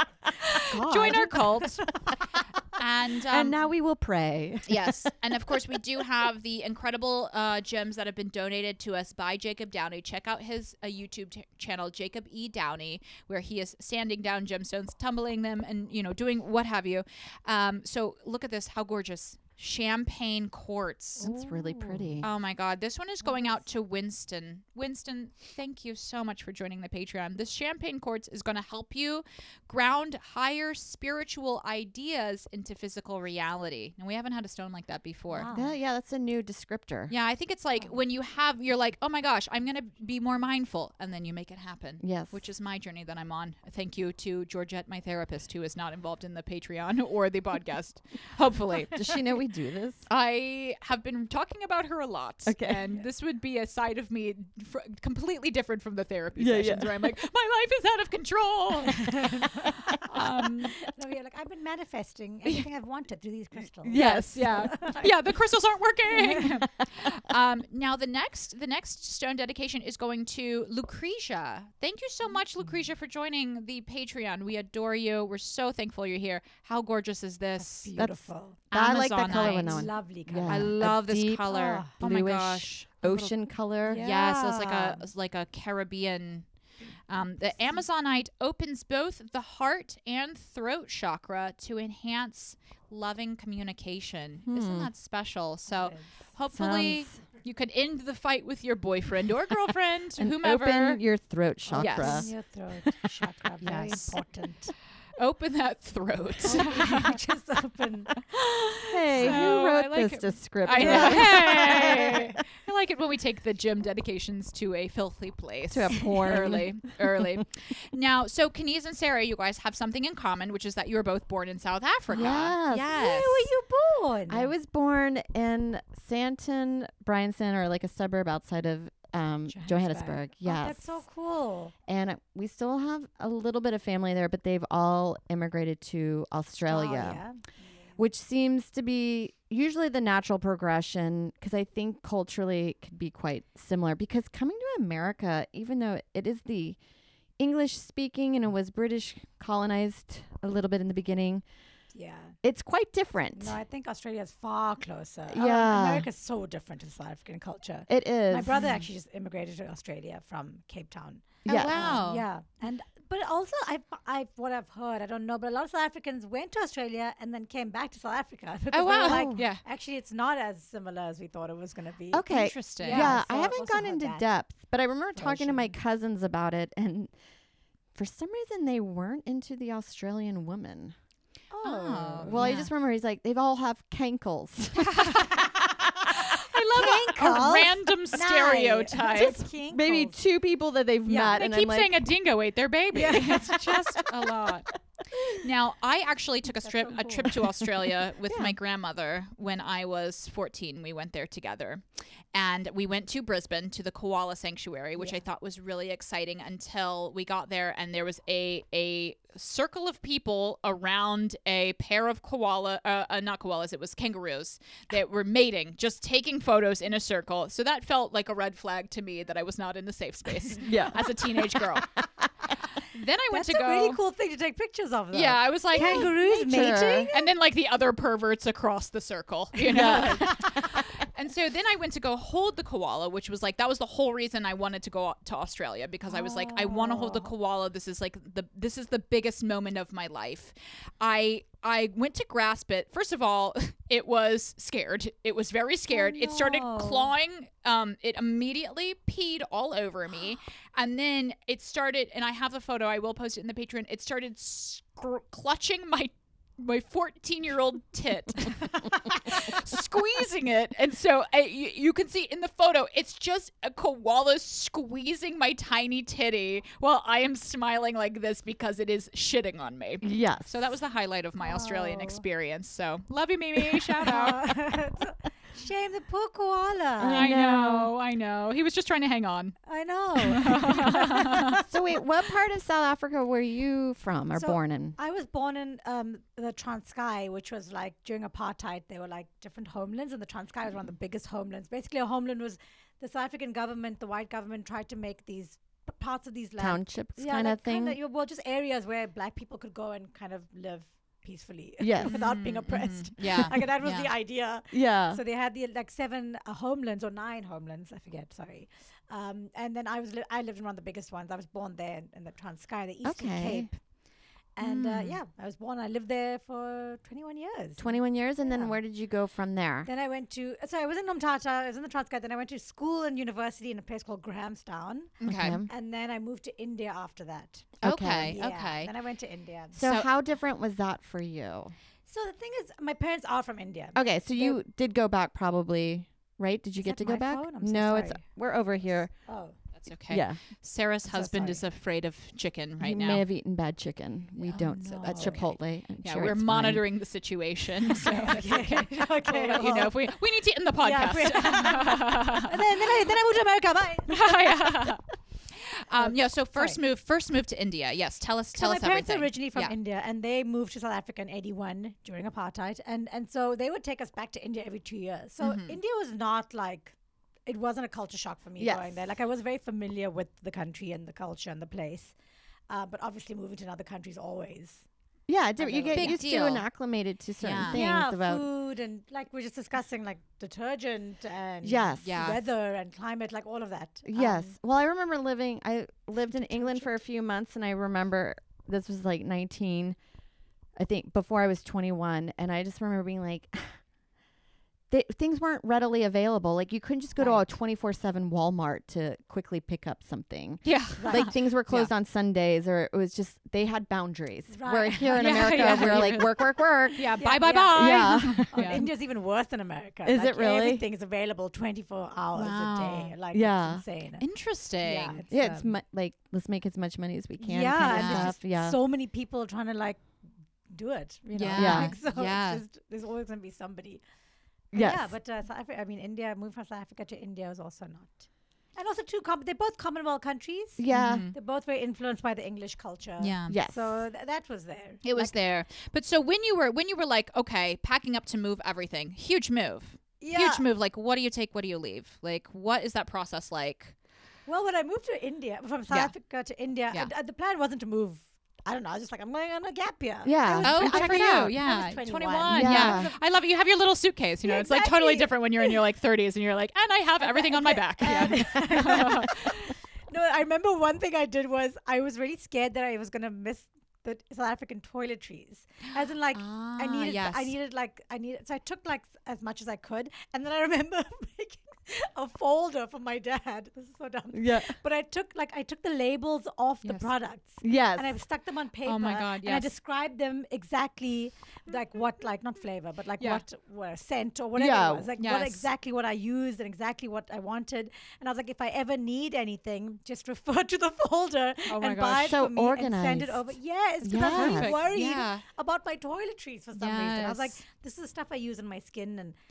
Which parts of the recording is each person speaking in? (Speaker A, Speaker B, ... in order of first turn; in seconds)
Speaker A: 0.4-1.8, 2.8-3.6, 4.7-21.3, 22.2-35.5, 37.1-49.1, 50.1-60.9, 63.9-77.9, 78.7-79.9, 80.5-83.3, 83.9-86.5, 87.1-101.0, 101.7-102.3, 103.6-104.2, 105.2-107.2, 108.3-123.5, 158.5-158.8, 161.4-162.2, 168.7-169.6, 172.3-173.2, 181.6-182.7, 184.7-189.4, 191.2-194.7, 195.3-221.9, 222.9-224.0, 225.1-274.4, 277.1-279.6, 280.1-281.6, 302.0-304.1, 314.6-315.2, 325.2-325.6, 327.8-328.9, 329.8-330.1, 339.7-343.2, 346.0-352.9, 354.1-359.8, 365.4-365.8, 375.9-376.6, 377.4-377.8, 382.0-382.4, 400.6-401.9, 405.0-408.9, 412.3-413.1, 414.2-415.2, 417.8-418.4, 421.3-422.6, 430.9-431.3, 433.2-433.6, 435.0-443.9, 450.6-459.7, 466.3-467.5, 476.8-477.1, 478.8-479.7, 483.2-483.4, 485.2-485.7, 491.7-492.4, 494.3-495.4, 496.7-497.6
Speaker B: 0.7-2.1, 21.2-22.2, 23.2-23.6, 35.3-35.7, 58.9-65.1, 66.1-66.6, 77.6-78.6, 79.3-80.8, 81.5-81.9, 83.8-85.0, 95.7-96.1, 101.7-104.7, 106.4-109.4, 110.7-112.3, 116.1-116.6, 122.1-124.5, 129.5-131.7, 136.7-138.0, 151.9-152.3, 153.3-174.2, 175.1-175.7, 181.5-182.6, 186.7-190.2, 191.1-191.4, 192.9-193.9, 196.6-197.4, 223.3-227.3, 229.6-230.6, 236.1-237.3, 245.9-247.1, 271.4-272.2, 273.7-277.3, 279.7-281.7, 284.3-313.8, 314.6-318.8, 319.8-329.8, 332.1-334.6, 336.8-339.6, 341.1-341.6, 344.4-345.5, 347.9-350.1, 350.8-355.0, 355.9-356.8, 358.5-372.1, 372.7-374.8, 375.6-376.2, 377.7-384.5, 386.3-386.9, 397.2-397.4, 401.0-401.3, 404.5-406.4, 407.2-414.2, 414.8-415.7, 417.4-420.0, 420.7-424.0, 424.7-435.3, 440.2-440.7, 444.4-453.2, 454.4-455.8, 457.2-499.4
Speaker C: 0.8-1.3, 3.3-5.1, 21.2-22.3, 35.5-37.1, 42.0-42.4, 48.9-50.1, 52.5-52.8, 56.4-57.1, 63.8-64.7, 78.0-84.0, 94.5-94.9, 96.5-97.1, 100.2-102.3, 108.9-112.3, 115.7-117.4, 122.1-122.9, 124.3-131.0, 131.9-137.2, 138.0-146.8, 147.4-151.4, 152.4-153.6, 155.3-156.1, 157.9-158.6, 161.4-162.0, 169.0-169.5, 172.1-177.1, 177.9-180.9, 182.2-185.2, 189.0-192.1, 198.2-198.6, 220.6-222.0, 225.7-227.1, 229.8-230.6, 270.0-270.7, 277.0-277.9, 281.7-284.9, 296.6-298.0, 301.8-302.2, 304.7-305.2, 313.0-313.7, 317.8-319.9, 325.2-325.7, 327.8-328.4, 329.7-331.7, 333.9-339.1, 340.1-340.4, 342.8-346.8, 368.6-368.9, 375.3-378.4, 381.6-382.1, 384.0-389.9, 390.8-393.8, 394.9-408.9, 410.0-410.8, 413.3-413.8, 415.3-418.8, 421.5-422.0, 424.7-425.1, 430.8-431.2, 433.5-434.0, 450.2-451.5, 452.5-453.1, 474.3-474.8, 477.6-478.1, 484.5-485.1, 492.1-494.8